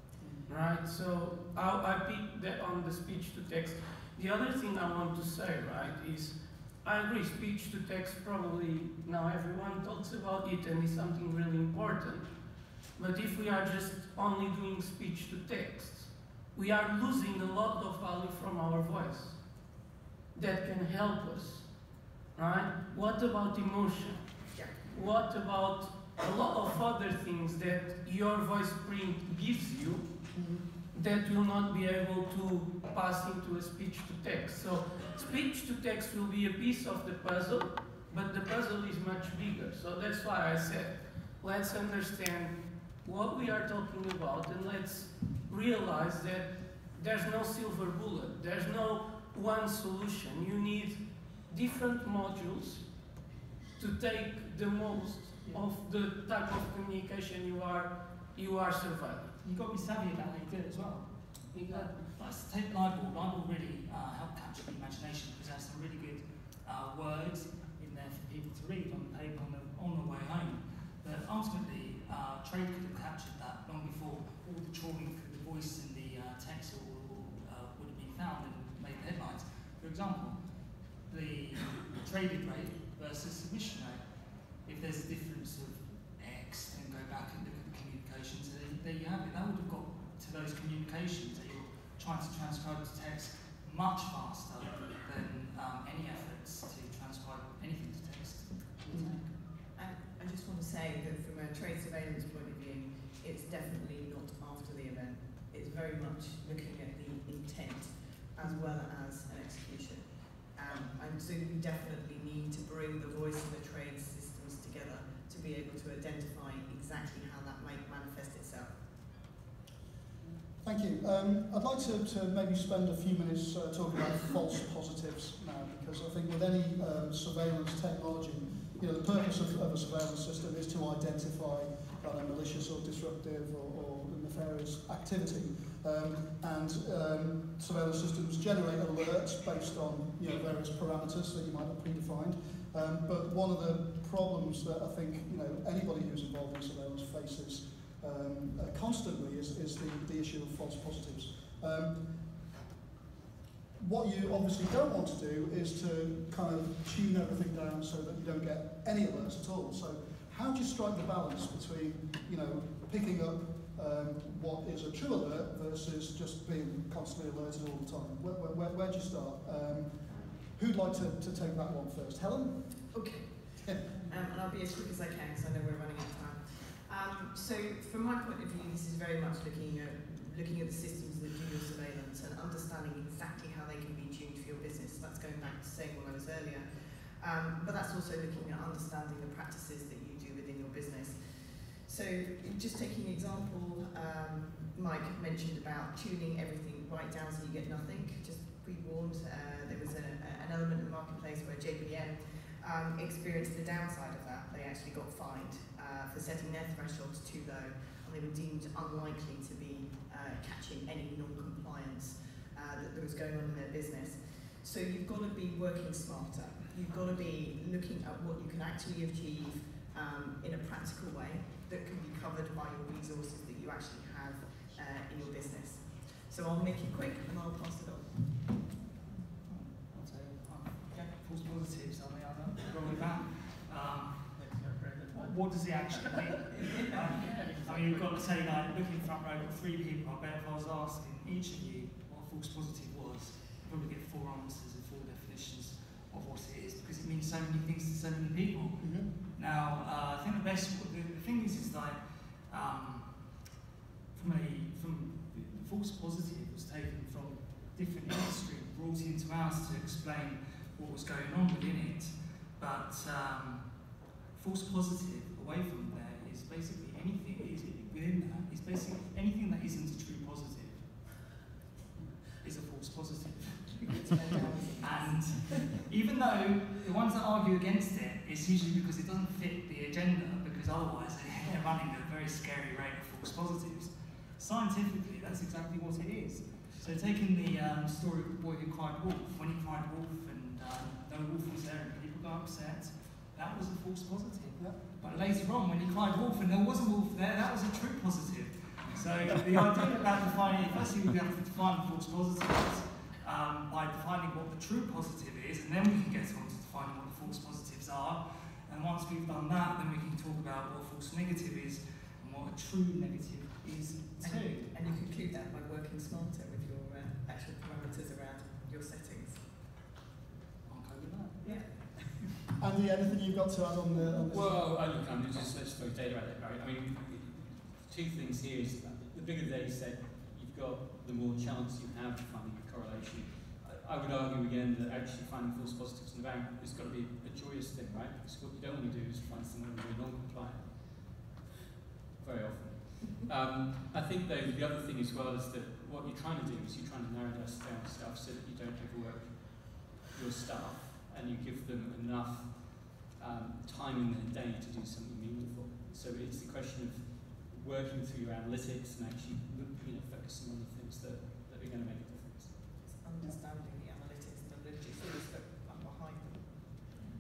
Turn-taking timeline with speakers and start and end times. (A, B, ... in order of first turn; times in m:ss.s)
0:00.2-0:00.4 A
0:00.5-0:12.3 B
0:13.0-0:19.4 B
0:20.3-0:21.7 B
0:22.4-0:30.0 B
0:30.3-0:30.6 A
0:30.9-0:52.9 B
0:53.8-0:59.3 B
0:59.4-1:20.4 C
1:01.5-1:01.9 B
1:21.1-1:24.0 C
1:24.6-1:39.4 C
1:38.9-1:39.2 A
1:39.8-1:58.8 D
2:00.3-2:32.0 A
2:33.8-2:52.9 A
2:52.9-3:48.3 D
2:53.6-2:53.9 A
3:49.4-3:54.4 C
3:50.9-3:51.6 D
3:54.4-3:55.4 B
3:55.1-4:13.4 C
3:56.5-3:57.6 D
3:57.2-3:58.1 B
4:08.8-4:09.1 A
4:14.1-4:23.8 C
4:24.3-4:31.3 C
4:32.3-5:14.7 C
4:33.9-4:35.8 D
5:14.2-5:19.5 D
5:20.7-5:22.0 C
5:21.4-5:21.9 D
5:22.6-5:24.5 A
5:24.3-5:41.4 E
5:42.2-6:02.8 E
6:02.8-6:06.8 D